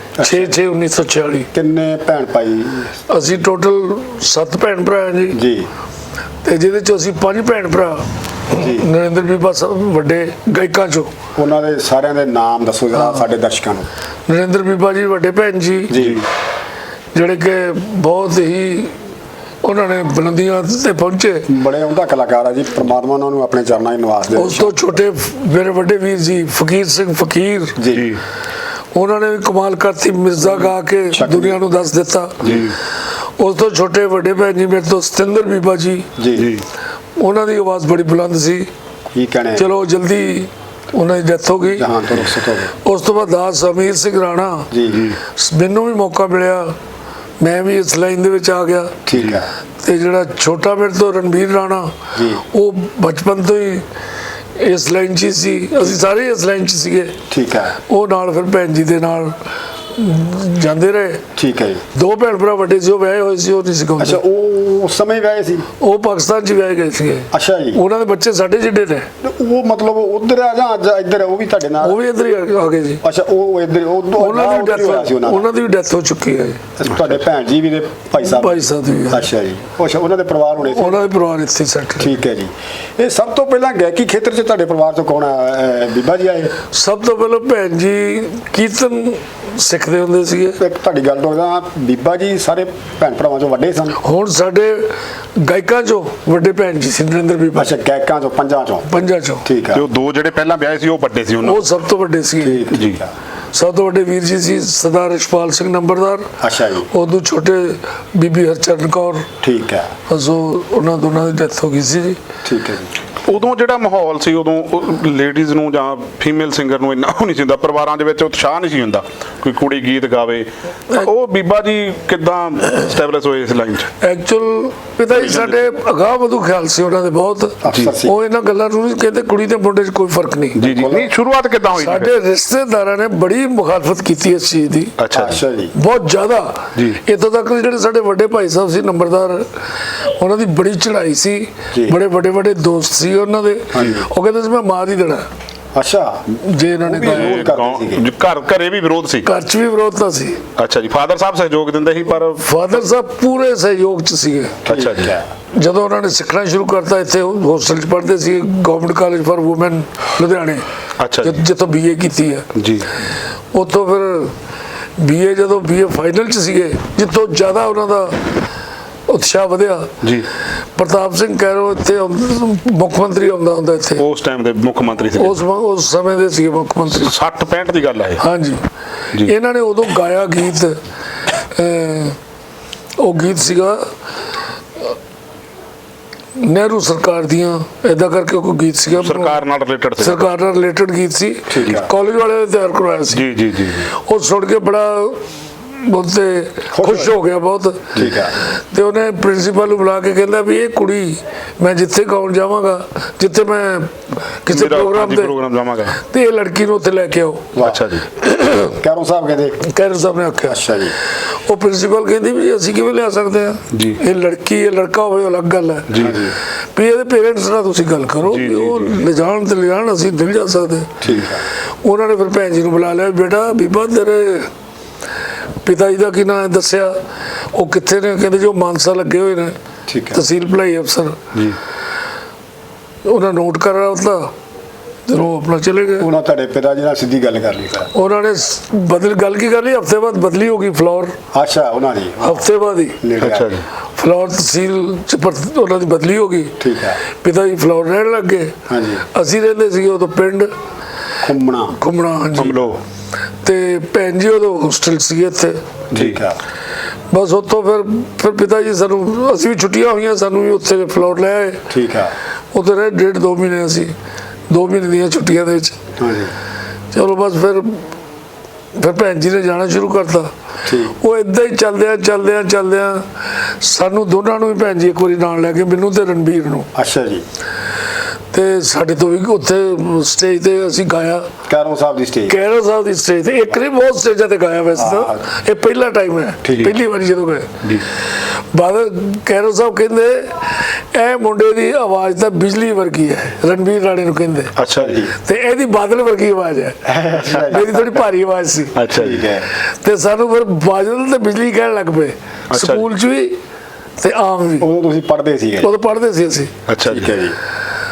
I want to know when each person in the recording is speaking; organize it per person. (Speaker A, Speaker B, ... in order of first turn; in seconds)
Speaker A: 0.2-0.6, 1.5-2.9, 5.3-5.7, 8.5-8.9, 11.4-13.9, 15.9-16.2, 21.5-24.9, 27.8-28.1, 30.4-31.6, 32.4-32.7, 36.2-36.5, 39.1-39.7, 41.7-42.7, 44.7-45.1, 49.1-49.5, 52.1-52.4, 57.3-57.8, 61.4-61.8, 64.0-65.7, 67.3-67.8, 69.2-72.0, 73.0-75.5, 76.8-81.0, 82.0-86.5, 90.6-94.0, 97.6-98.9, 99.4-99.8, 102.4-103.1, 106.4-106.9, 109.4-109.9, 112.4-112.9, 127.6-128.2, 130.6-131.1, 135.1-135.7, 143.7-144.0, 145.8-146.2, 146.8-148.1, 154.7-155.3, 191.5-191.9, 196.7-197.2, 197.9-198.3, 207.6-207.9, 208.7-209.6, 210.5-210.9, 216.0-216.3, 221.0-221.4, 229.9-230.2, 236.0-237.9, 241.3-242.5, 243.0-243.6, 246.6-247.0, 248.7-249.1, 251.2-251.8, 255.9-256.4, 261.7-262.1, 266.0-266.3, 270.6-270.9, 276.8-277.2, 281.5-282.4, 284.8-285.2, 286.4-286.8, 294.7-295.1, 296.9-298.1, 298.9-299.5, 304.6-305.7, 306.9-307.4
Speaker B: 0.2-1.5, 3.1-5.4, 6.4-11.1, 12.9-13.3, 14.3-15.9, 17.1-18.9, 19.6-21.5, 24.4-27.8, 28.9-32.4, 33.4-36.1, 37.2-38.7, 39.6-41.9, 42.7-46.7, 47.4-49.0, 49.8-51.9, 52.5-53.9, 54.6-57.1, 57.8-59.4, 59.9-61.2, 62.0-64.2, 65.8-69.1, 71.8-73.0, 74.2-76.6, 78.2-79.2, 80.6-82.1, 86.7-90.6, 94.0-97.8, 98.9-99.4, 101.4-102.7, 103.5-106.3, 106.9-109.3, 110.1-112.2, 124.0-130.6, 131.7-134.9, 135.8-139.4, 140.0-145.2, 146.4-147.5, 149.2-150.4, 152.4-154.6, 155.5-160.7, 161.2-162.5, 163.5-164.3, 165.0-168.2, 169.1-169.9, 170.8-174.0, 175.1-177.1, 178.2-178.6, 179.2-180.8, 181.4-182.2, 183.0-183.8, 186.4-189.4, 190.0-193.3, 193.9-197.9, 198.6-205.3, 206.0-207.5, 208.2-208.8, 209.6-210.6, 211.5-215.9, 216.7-220.9, 221.8-224.5, 225.6-226.9, 227.5-229.6, 230.1-231.2, 233.1-234.3, 235.1-236.1, 237.9-241.2, 242.2-243.0, 244.0-246.6, 247.1-248.6, 249.1-250.5, 251.8-252.6, 253.4-255.6, 257.1-261.6, 262.5-263.9, 264.5-265.8, 266.9-267.8, 268.8-270.3, 271.0-276.7, 278.3-281.3, 282.3-287.5, 288.3-294.5, 295.1-298.8, 299.7-303.4, 304.0-304.7, 305.6-306.5
Speaker C: 15.9-16.2, 27.9-28.2, 32.4-32.8, 36.3-36.6, 44.9-45.2, 49.1-49.4, 99.7-101.7, 102.7-103.0, 113.2-123.9, 125.1-125.6, 127.7-128.0, 130.6-132.1, 135.0-135.4, 136.8-137.0, 147.0-149.3, 150.6-152.4, 154.7-155.1, 161.0-161.4, 162.6-162.9, 170.0-170.3, 174.0-175.4, 176.9-178.2, 188.9-190.3, 193.1-193.9, 204.5-206.0, 207.6-208.1, 213.7-214.0, 215.9-216.2, 218.2-219.0, 231.3-231.6, 243.2-243.7, 252.3-252.8, 294.6-295.0, 298.8-299.2, 302.5-302.9, 306.7-307.1